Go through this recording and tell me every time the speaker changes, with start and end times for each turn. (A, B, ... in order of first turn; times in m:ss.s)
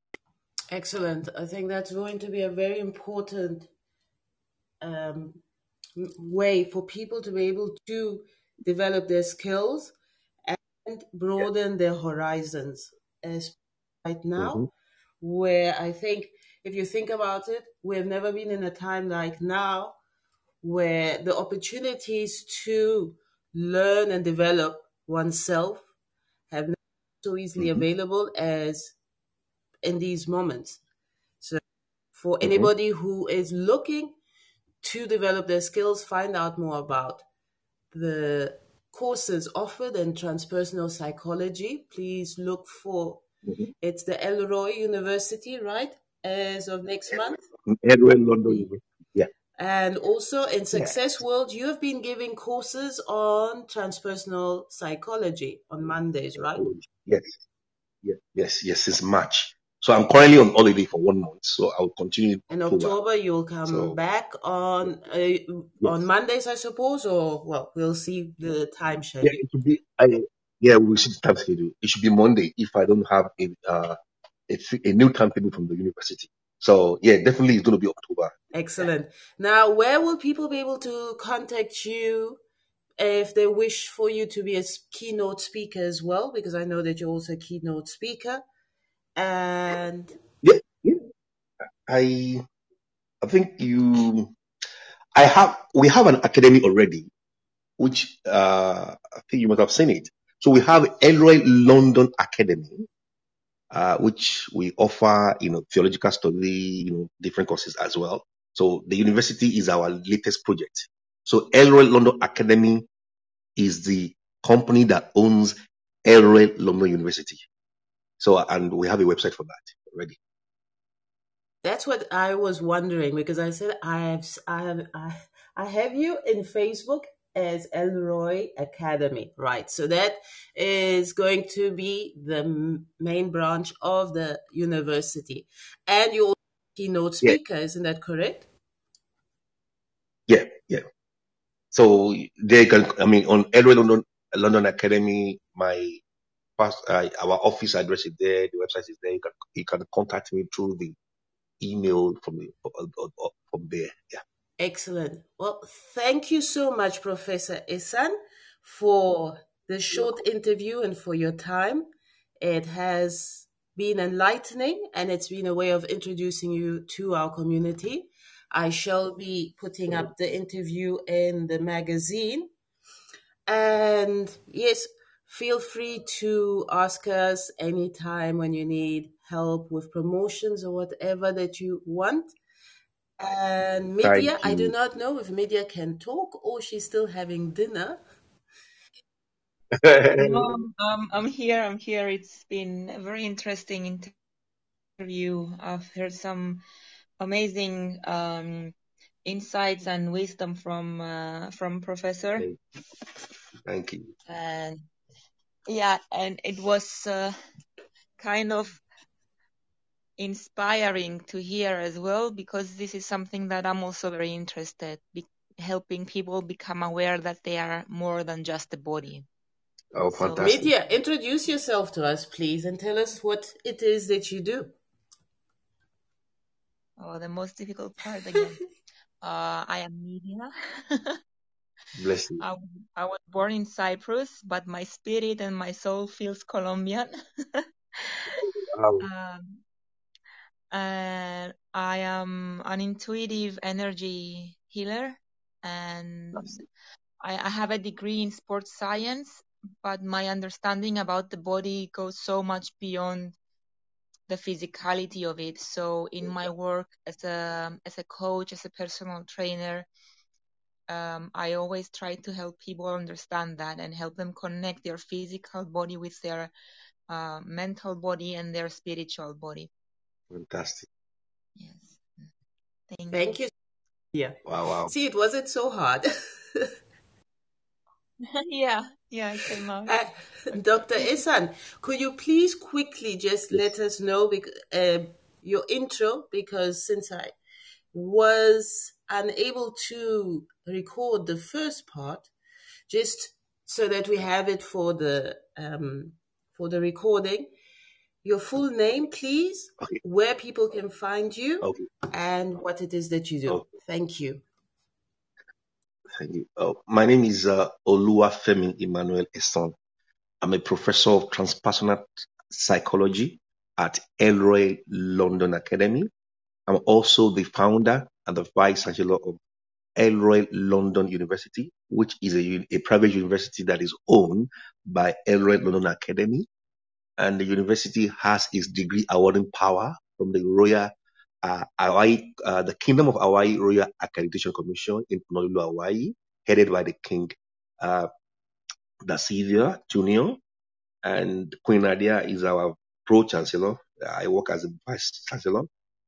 0:00.7-0:03.7 A
0:04.8-0:05.4 A
0:06.0-0:09.9 A
0:10.5-0:14.7 A
0:14.4-0:14.7 B
0:15.2-0:20.0 A
0:20.6-0:25.8 A
0:26.5-0:28.9 A
0:27.6-0:27.8 B
0:29.8-0:30.8 A
0:32.1-0:34.2 A
0:32.4-0:32.7 B
0:34.8-0:37.2 A
0:37.9-0:43.2 A
0:43.8-0:47.4 A
0:47.6-0:49.3 B
0:49.6-0:56.7 A
0:50.7-0:51.0 B
0:56.6-0:57.4 B
0:58.0-1:02.9 B
1:02.5-1:09.4 A
1:03.7-1:04.0 B
1:09.2-1:14.0 B
1:14.5-1:18.9 B
1:18.5-1:22.4 A
1:23.0-1:28.4 A
1:29.2-1:30.1 A
1:30.4-1:31.0 B
1:31.9-1:32.4 B
1:33.2-1:34.3 B
1:35.1-1:37.1 B
1:37.8-1:42.9 B
1:43.7-1:52.9 B
1:53.6-1:57.4 B
1:58.2-2:00.2 B
2:01.6-2:18.4 A
2:20.3-2:20.8 B
2:21.7-2:26.0 B
2:26.6-2:31.0 B
2:31.6-2:34.2 B
2:34.6-2:41.9 A
2:42.4-2:52.5 A
2:53.5-3:02.3 A
3:03.2-3:08.0 A
3:04.0-3:04.8 B
3:09.7-3:10.5 B
3:10.2-3:14.1 C
3:15.0-3:16.6 C
3:17.2-3:22.5 C
3:23.6-3:24.1 B
3:24.3-3:24.8 C
3:25.7-3:27.3 C
3:28.2-3:28.8 C
3:30.2-3:39.2 C
3:39.9-3:40.7 B
3:40.1-3:40.4 C
3:40.3-3:44.7 A
3:47.0-3:48.6 C
3:49.2-3:51.2 C
3:51.9-3:52.4 B
3:52.4-3:58.3 C
3:58.3-3:59.0 B
3:59.0-3:59.6 C
4:00.7-4:06.6 C
4:07.2-4:13.4 C
4:14.3-4:19.9 C
4:16.2-4:16.5 B
4:20.9-4:26.5 C
4:27.1-4:29.7 C
4:30.3-4:30.9 B
4:31.6-4:32.3 C
4:32.9-4:33.4 C
4:33.1-4:33.5 A
4:34.1-4:36.7 A
4:34.4-4:34.9 B
4:38.3-4:40.0 C
4:39.8-4:47.3 A
4:47.9-4:52.3 A
4:52.9-4:57.5 A
4:58.2-5:04.4 A
5:06.2-5:09.7 B
5:10.4-5:16.1 B
5:16.7-5:19.4 B
5:20.0-5:26.5 B
5:27.2-5:30.9 B
5:31.4-5:38.1 B
5:39.0-5:40.4 B
5:41.0-5:45.7 B